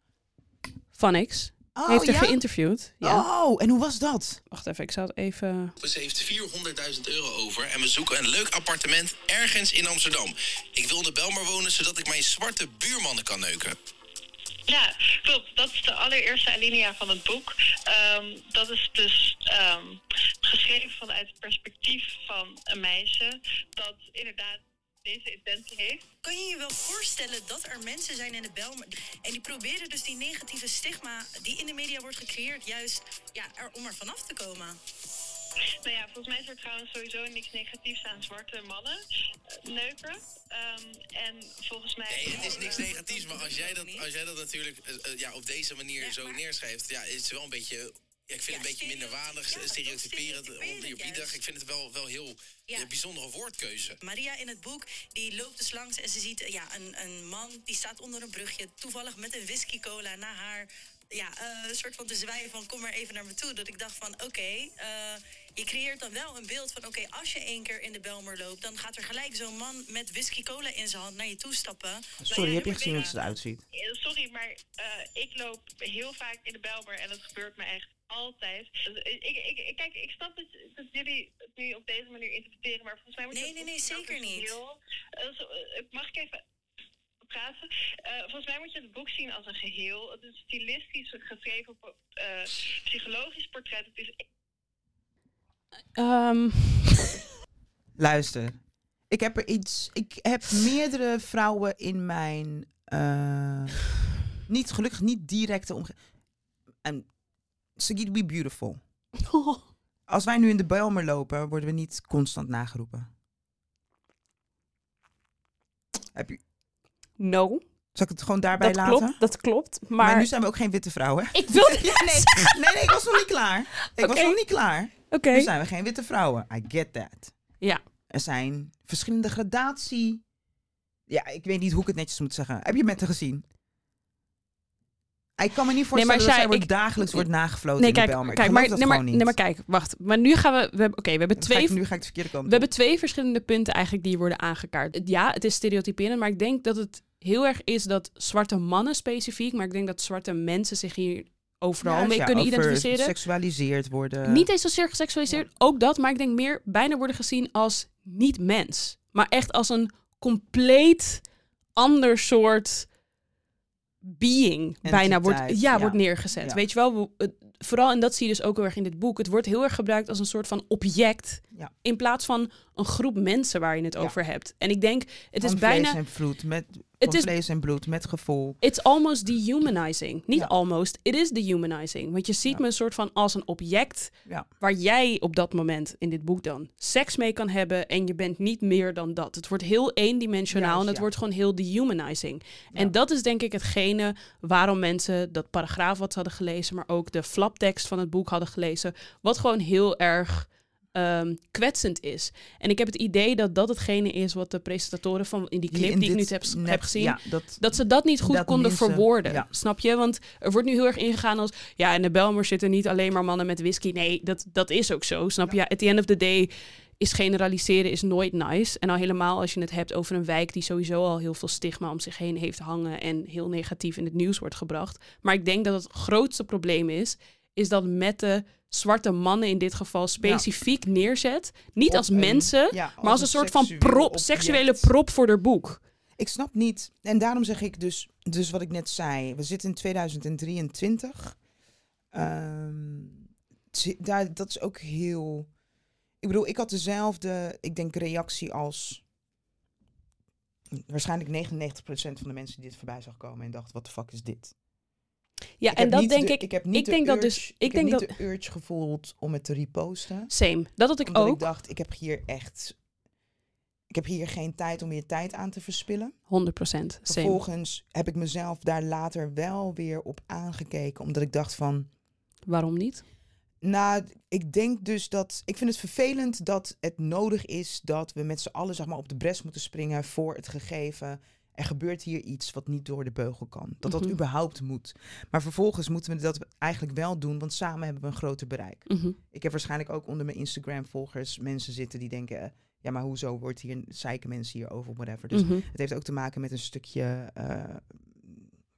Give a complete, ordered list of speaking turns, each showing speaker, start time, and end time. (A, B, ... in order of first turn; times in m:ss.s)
0:00.9-0:03.2 A
0:01.7-0:02.4 B
0:03.0-0:04.4 B
0:04.5-0:05.7 A
0:05.8-0:13.8 C
0:14.7-0:26.0 D
0:26.2-0:34.8 E
0:35.8-0:39.0 D
0:39.6-0:43.0 D
0:42.1-0:54.0 C
0:42.2-0:44.1 E
0:46.0-0:46.4 E
0:48.5-0:51.4 E
0:54.0-1:13.0 E
1:12.2-1:13.6 B
1:12.3-1:13.1 D
1:13.7-1:26.4 D
1:23.3-1:24.6 E
1:27.2-1:34.1 D
1:35.9-1:37.2 A
1:38.0-1:38.6 B
1:39.1-1:43.8 B
1:44.4-1:46.0 B
1:46.8-1:47.1 B
1:47.8-1:48.8 B
1:49.2-1:49.6 A
1:50.1-1:53.1 B
1:56.1-1:56.4 B
1:57.2-1:57.6 A
1:57.9-1:59.2 B
1:58.6-2:00.3 A
2:00.0-2:07.3 B
2:01.3-2:03.0 A
2:03.8-2:04.4 A
2:05.1-2:05.5 A
2:08.1-2:10.2 B
2:11.1-2:13.4 B
2:15.4-2:19.3 B
2:15.9-2:17.2 A
2:17.8-2:21.8 A
2:21.4-2:22.7 B
2:22.4-2:33.1 A
2:31.8-2:34.5 B
2:34.2-2:41.2 A
2:41.8-2:42.9 A
2:44.0-2:56.0 A
2:44.8-2:46.6 B
2:55.4-2:58.6 B
2:57.0-2:57.3 A
2:58.6-3:55.8 A
3:10.5-3:11.1 B
3:25.7-3:27.6 B
3:28.2-3:29.5 B
3:51.9-3:54.9 B
3:56.2-4:01.4 B
4:02.1-4:05.5 B
4:06.2-4:09.0 B
4:10.7-4:14.5 B
4:15.6-4:18.1 A
4:15.7-4:20.3 B
4:20.3-4:21.4 A
4:21.0-4:22.8 B
4:23.9-4:26.1 B
4:26.3-4:27.4 A
4:27.0-4:31.9 B
4:32.5-4:33.0 A
4:33.6-4:58.5 B
4:43.8-4:44.1 A
4:48.9-4:49.2 A
4:55.3-4:55.6 A